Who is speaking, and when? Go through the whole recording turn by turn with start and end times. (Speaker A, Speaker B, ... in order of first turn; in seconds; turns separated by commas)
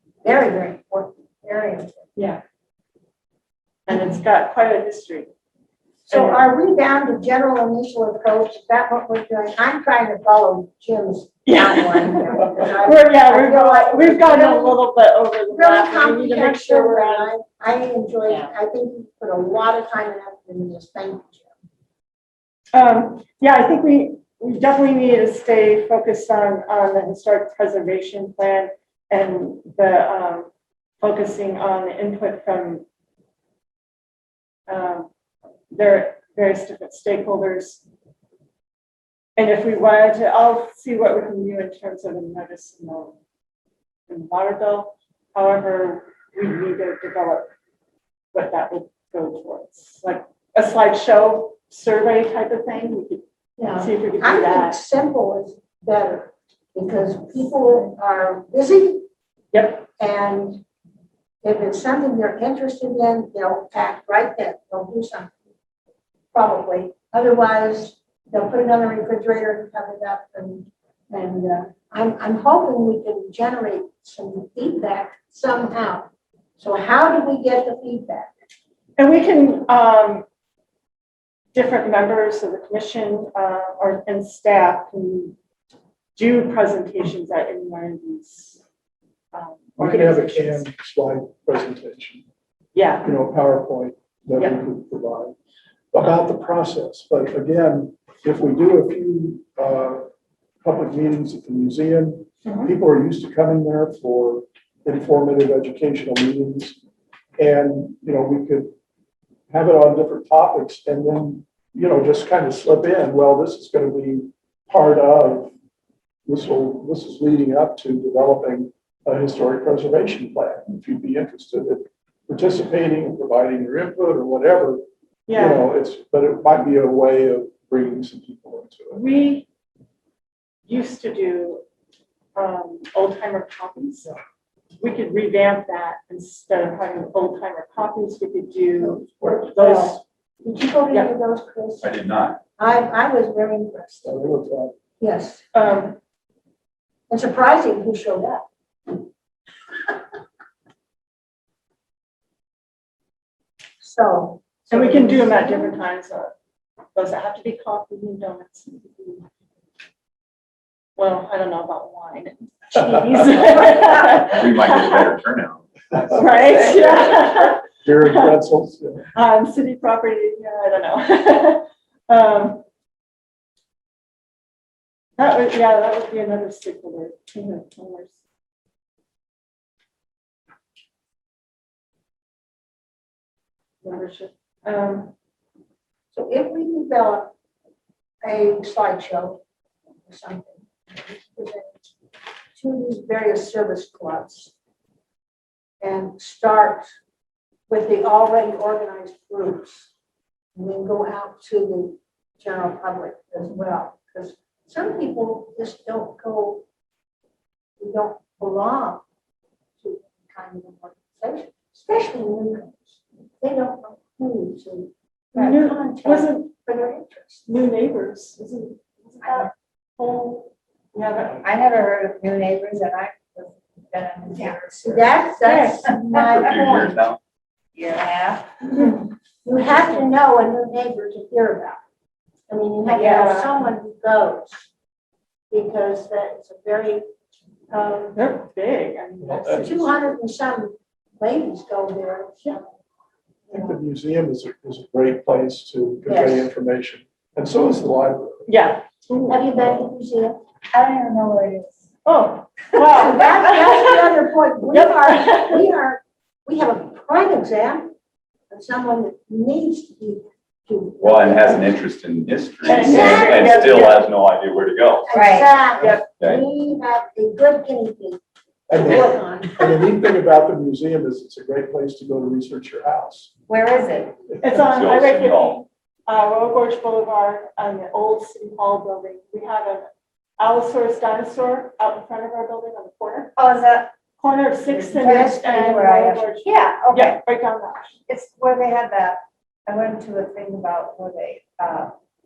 Speaker A: 0.2-2.1, Speaker B: 2.2-2.4, Speaker B: 3.9-5.3, Speaker A: 6.0-14.8, Speaker B: 6.1-6.4, Speaker B: 11.5-17.3, Speaker A: 15.5-21.5, Speaker B: 22.7-30.5, Speaker B: 31.0-32.8, Speaker B: 34.7-35.1, Speaker B: 35.7-37.8, Speaker B: 39.4-43.2, Speaker B: 44.1-47.5, Speaker B: 48.3-53.2, Speaker A: 53.6-59.0, Speaker B: 53.8-54.8, Speaker B: 59.5-59.9, Speaker A: 60.0-60.6, Speaker A: 61.4-65.3, Speaker A: 66.3-78.3, Speaker B: 79.0-80.3, Speaker B: 81.5-85.4, Speaker B: 86.2-88.6, Speaker B: 89.3-90.6, Speaker C: 89.8-92.2, Speaker B: 92.7-93.1, Speaker C: 93.0-95.3, Speaker C: 95.9-100.0, Speaker C: 100.6-106.8, Speaker B: 102.5-102.7, Speaker C: 107.4-108.7, Speaker C: 109.5-115.5, Speaker C: 116.3-129.0, Speaker B: 125.3-125.7, Speaker B: 128.9-129.5, Speaker B: 130.7-131.6, Speaker B: 132.4-134.1, Speaker B: 134.8-140.0, Speaker A: 138.8-141.9, Speaker D: 141.8-142.4, Speaker A: 142.6-144.2, Speaker C: 144.1-144.7, Speaker A: 145.0-145.4, Speaker B: 145.5-146.0, Speaker A: 147.1-149.0, Speaker A: 153.8-155.8, Speaker B: 154.7-156.3, Speaker B: 156.9-159.3, Speaker B: 161.0-165.1, Speaker D: 164.2-165.7, Speaker C: 165.9-167.1, Speaker B: 166.1-168.4, Speaker C: 167.8-169.0, Speaker B: 169.1-172.6, Speaker B: 175.2-178.2, Speaker B: 183.8-185.1, Speaker A: 186.1-187.3, Speaker A: 188.2-189.4, Speaker A: 190.1-191.9, Speaker A: 192.6-194.5, Speaker A: 195.8-196.9, Speaker A: 197.7-199.9, Speaker A: 200.6-206.6, Speaker A: 207.8-209.0, Speaker A: 209.8-217.6, Speaker B: 215.3-216.5, Speaker B: 217.5-221.4, Speaker E: 221.4-225.1, Speaker A: 224.4-227.0, Speaker B: 225.4-225.8, Speaker E: 226.1-226.5, Speaker D: 226.4-227.2, Speaker E: 227.8-228.8, Speaker A: 228.9-231.8, Speaker A: 232.5-234.7, Speaker E: 232.9-233.2, Speaker B: 233.0-233.5, Speaker A: 235.5-237.1, Speaker A: 237.7-238.2, Speaker B: 238.2-239.9, Speaker C: 239.2-239.8, Speaker A: 239.6-242.6, Speaker A: 243.5-243.8, Speaker C: 243.5-248.5, Speaker A: 246.1-246.5, Speaker B: 248.5-249.4, Speaker A: 249.3-250.4, Speaker E: 250.7-251.9, Speaker B: 252.1-254.1, Speaker A: 252.9-257.9, Speaker B: 254.7-255.7, Speaker A: 258.5-261.8, Speaker D: 261.0-265.1, Speaker B: 262.6-264.0, Speaker A: 262.6-263.7, Speaker A: 265.1-269.9, Speaker E: 265.1-265.5, Speaker B: 265.8-266.0, Speaker C: 268.7-273.3, Speaker E: 273.5-274.2, Speaker B: 274.4-279.9, Speaker D: 274.5-275.6, Speaker B: 280.4-283.4, Speaker E: 283.4-283.9, Speaker B: 284.2-288.0, Speaker A: 284.9-286.4, Speaker E: 284.9-285.3, Speaker E: 286.4-287.2, Speaker E: 288.1-291.9